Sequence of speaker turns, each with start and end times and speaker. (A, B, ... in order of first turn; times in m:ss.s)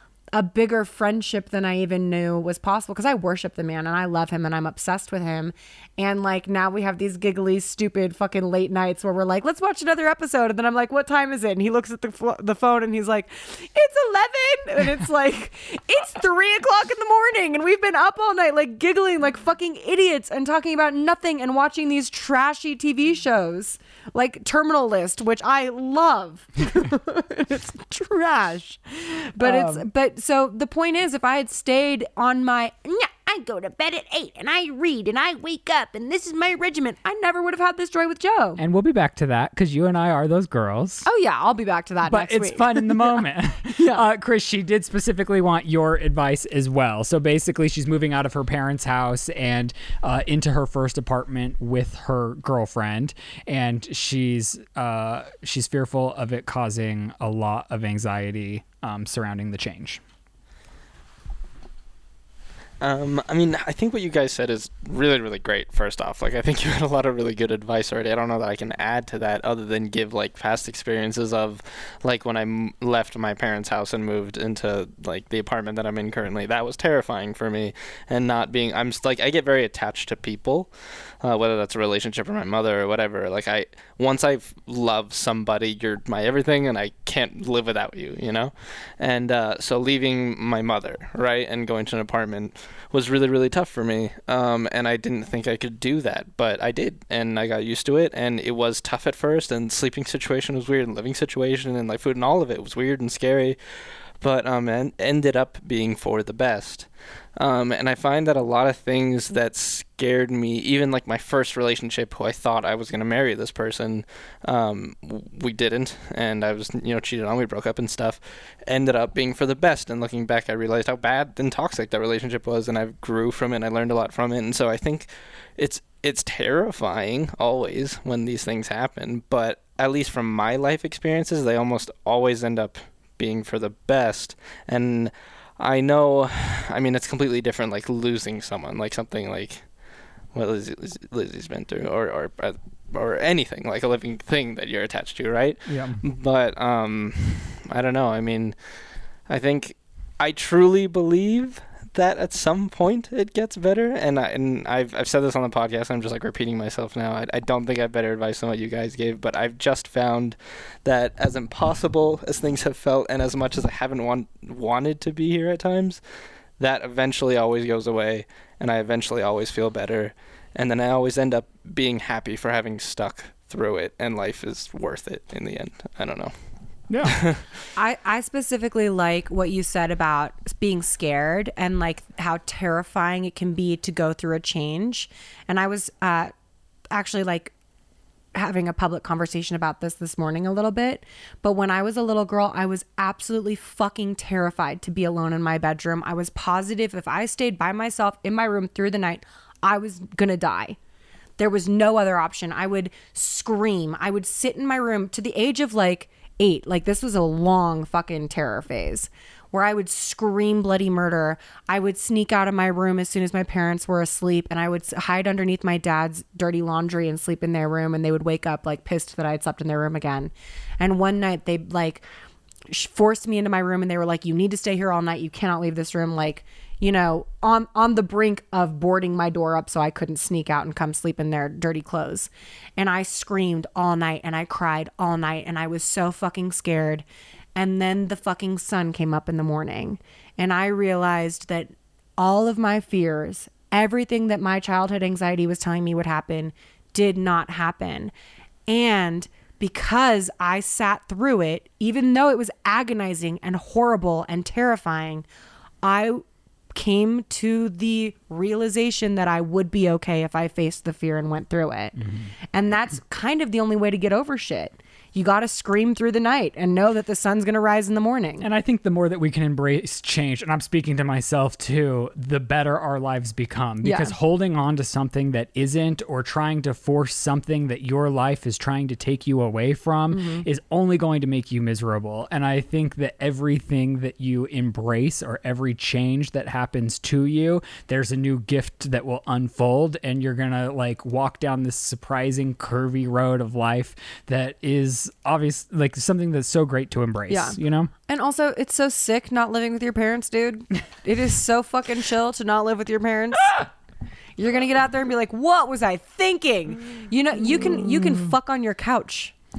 0:00.3-0:38.6 A
0:29.4-0:29.8 B
0:38.6-0:41.0 B
0:41.0-0:43.2 A
0:42.0-1:00.0 B
0:43.7-0:44.0 A
1:02.8-1:20.7 C
1:21.2-1:43.6 C
1:44.2-2:19.6 C
2:20.3-2:28.6 C
2:25.7-2:26.0 B
2:29.3-2:46.0 C
2:46.6-2:56.3 C
2:56.9-2:57.2 B
2:57.0-2:57.4 C
2:57.7-3:06.3 A
3:06.9-3:07.5 A
3:08.3-3:20.8 A
3:21.4-3:42.0 A
3:42.7-4:08.1 A
4:08.7-4:15.2 A
4:15.8-4:22.0 A
4:22.0-4:22.3 B
4:22.5-4:28.5 A
4:28.4-4:57.9 B
4:33.8-4:34.1 A
4:40.1-4:40.4 A
4:57.3-5:03.7 A
5:04.4-5:09.3 A